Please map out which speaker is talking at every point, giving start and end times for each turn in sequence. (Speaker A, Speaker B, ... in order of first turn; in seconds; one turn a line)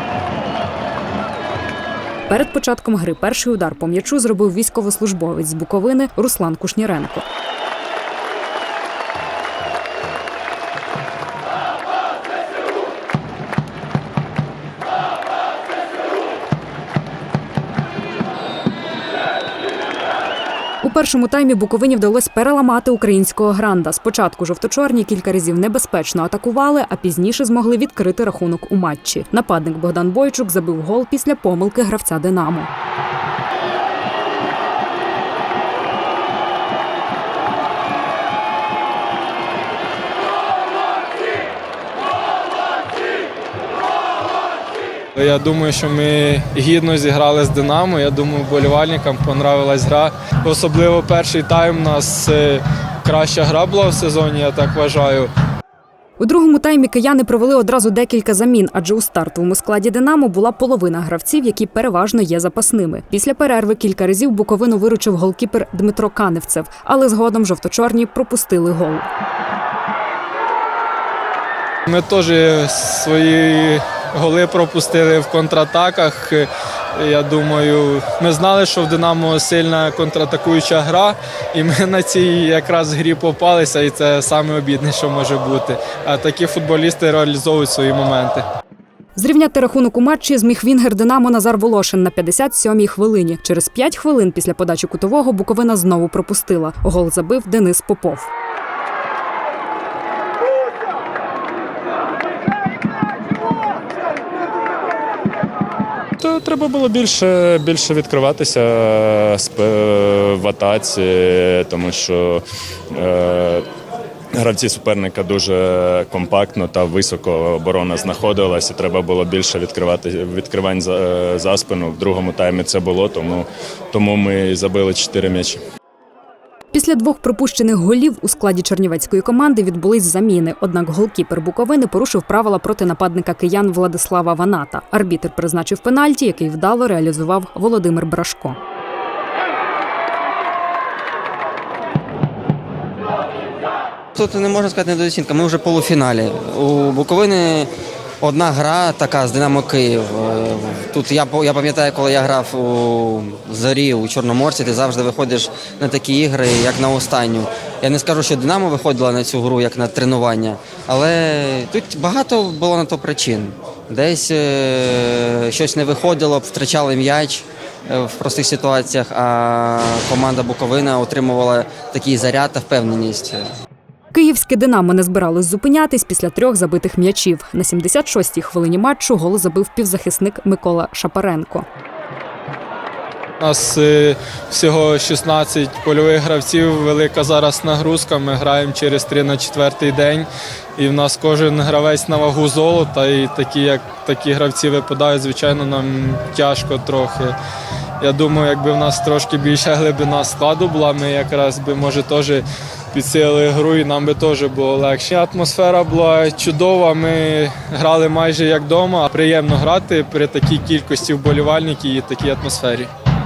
Speaker A: 2.3-7.2
Speaker A: 20.8-32.7
Speaker B: 45.1-55.3
Speaker A: 56.2-69.1
Speaker B: 71.9-88.4
Speaker A: 89.2-98.3
Speaker C: 106.2-113.6
Speaker C: 114.4-125.6
Speaker A: 126.7-138.6
Speaker D: 144.1-173.5
Speaker A: 174.1-181.7
Speaker B: 183.4-197.3
Speaker B: 198.0-212.9